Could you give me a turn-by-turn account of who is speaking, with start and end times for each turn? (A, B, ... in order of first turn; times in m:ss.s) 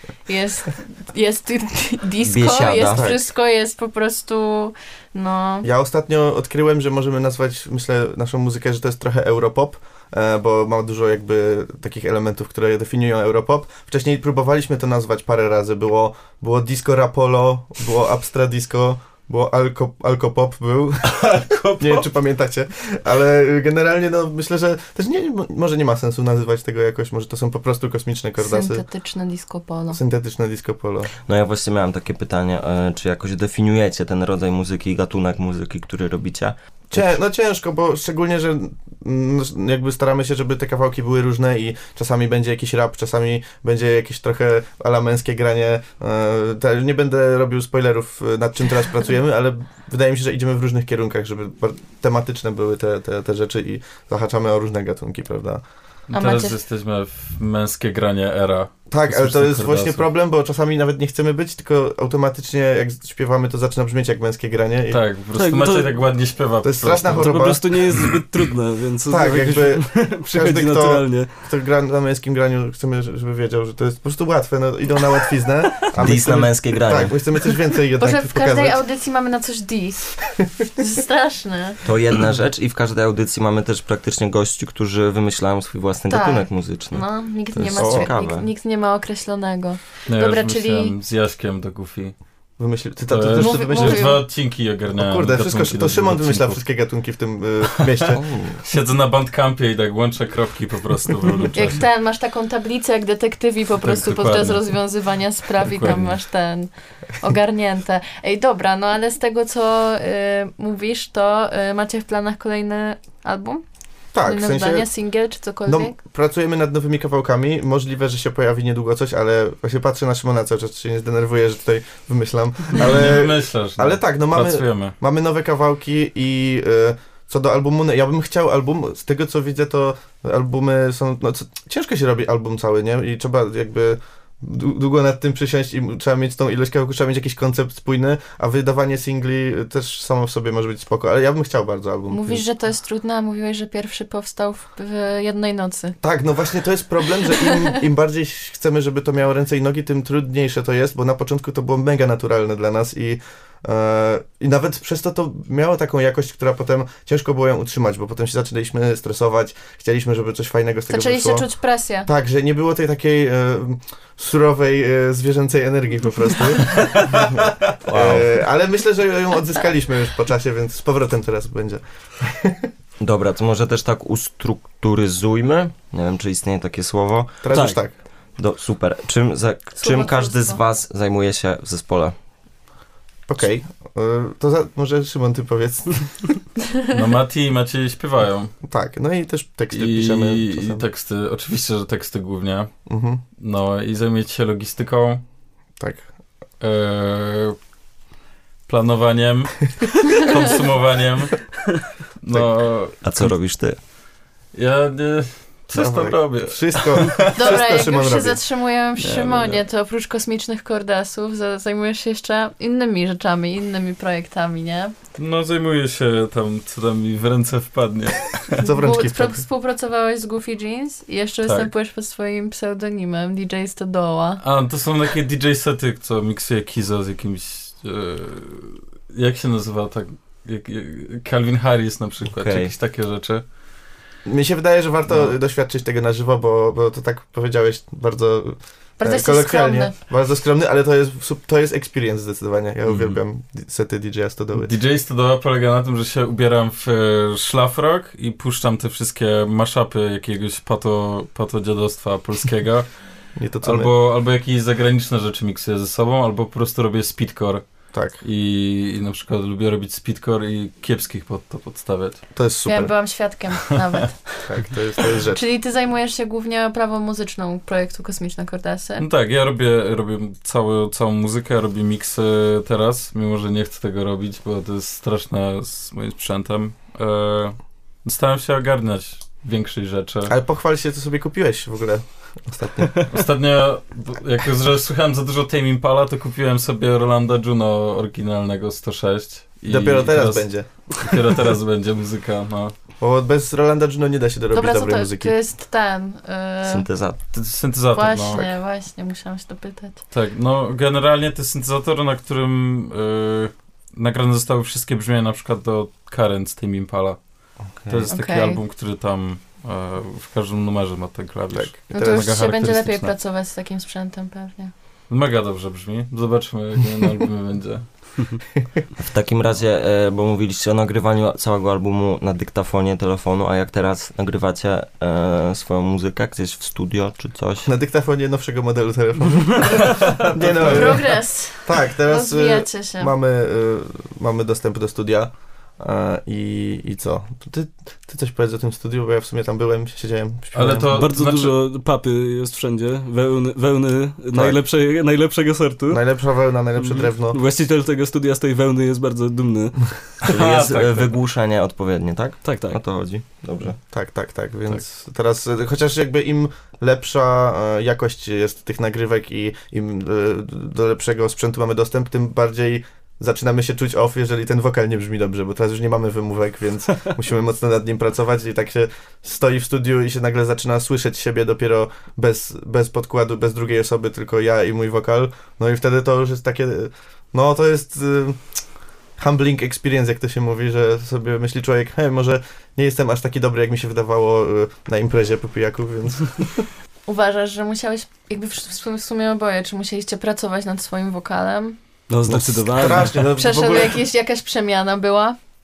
0:00.2-0:05.7 A
0:02.2-0:03.1 B
0:02.9-0:03.3 C
0:05.6-0:28.8 C
0:28.4-0:30.0 A
0:29.9-0:31.1 C
0:31.2-0:37.2 B
0:36.9-0:55.6 C
0:56.1-1:00.0 D
0:56.1-0:56.6 A
0:58.9-1:05.0 C
1:04.9-1:07.5 D
1:05.4-1:06.0 E
1:06.6-1:07.7 C
1:07.1-1:11.3 E
1:09.1-1:18.8 C
1:16.0-1:17.1 B
1:18.0-1:20.2 A
1:20.8-1:21.8 A
1:21.8-1:28.5 B
1:26.1-1:30.9 A
1:27.8-1:28.1 C
1:30.1-1:32.1 D
1:32.6-1:34.2 C
1:33.1-1:36.6 D
1:33.4-1:34.2 A
1:34.9-1:38.2 C
1:37.8-1:38.0 D
1:38.1-1:38.6 B
1:38.6-1:41.8 D
1:41.5-1:53.6 A
1:43.8-1:44.7 D
1:45.6-1:46.1 D
1:54.1-1:54.9 C
1:54.2-1:55.9 A
1:55.6-2:22.4 C
2:02.7-2:04.9 D
2:22.1-2:26.0 A
2:26.0-2:41.5 C
2:40.9-2:42.1 A
2:42.0-2:52.7 C
2:47.8-2:48.3 B
2:53.0-2:57.5 B
2:57.4-2:57.9 C
2:57.5-2:57.8 E
2:58.4-3:02.1 B
2:59.8-3:00.6 A
3:03.3-3:06.1 C
3:06.9-3:08.5 D
3:08.6-3:10.8 C
3:09.7-3:12.7 D
3:12.9-3:13.2 C
3:13.4-3:15.2 D
3:15.8-3:16.0 C
3:16.6-3:17.6 D
3:18.7-3:21.5 D
3:22.2-3:23.3 D
3:23.0-3:23.8 B
3:24.5-3:27.6 D
3:25.7-3:28.4 C
3:27.3-3:34.9 A
3:29.0-3:29.6 D
3:35.2-3:38.6 D
3:38.6-3:39.4 C
3:38.6-3:44.4 A
3:41.4-3:41.7 D
3:44.4-3:53.4 D
3:52.3-3:52.7 B
3:54.2-4:04.7 C
3:59.0-3:59.9 A
4:04.6-4:12.9 D
4:13.4-4:13.9 C
4:13.6-4:17.6 D
4:17.9-4:18.2 C
4:18.2-4:22.2 D
4:22.3-4:22.9 C
4:22.6-4:24.3 A
4:24.4-4:25.4 C
4:25.3-4:29.0 A
4:29.0-4:40.3 D
4:40.3-4:43.0 C
4:43.1-4:52.7 D
4:49.7-4:50.7 C
4:53.0-4:55.3 C
4:54.5-4:56.8 A
4:56.6-4:57.2 B
4:57.3-4:58.5 D
4:57.9-5:00.0 A
5:00.1-5:07.2 D
5:07.9-5:13.1 D
5:08.1-5:08.6 A
5:11.5-5:13.0 C
5:11.9-5:14.7 A
5:15.1-5:18.1 D
5:19.0-5:27.7 B
5:27.6-5:40.9 C
5:30.6-5:33.1 A
5:40.5-5:41.5 D
5:40.9-5:46.0 E
5:45.9-5:47.4 C
5:46.8-5:49.8 E
5:50.2-5:51.1 D
5:50.2-5:53.8 B
5:52.4-5:52.8 E
5:53.8-6:18.4 C
6:19.2-6:26.7 C
6:27.0-6:31.8 A
6:32.1-6:33.1 E
6:32.3-6:34.0 C
6:33.2-6:35.4 A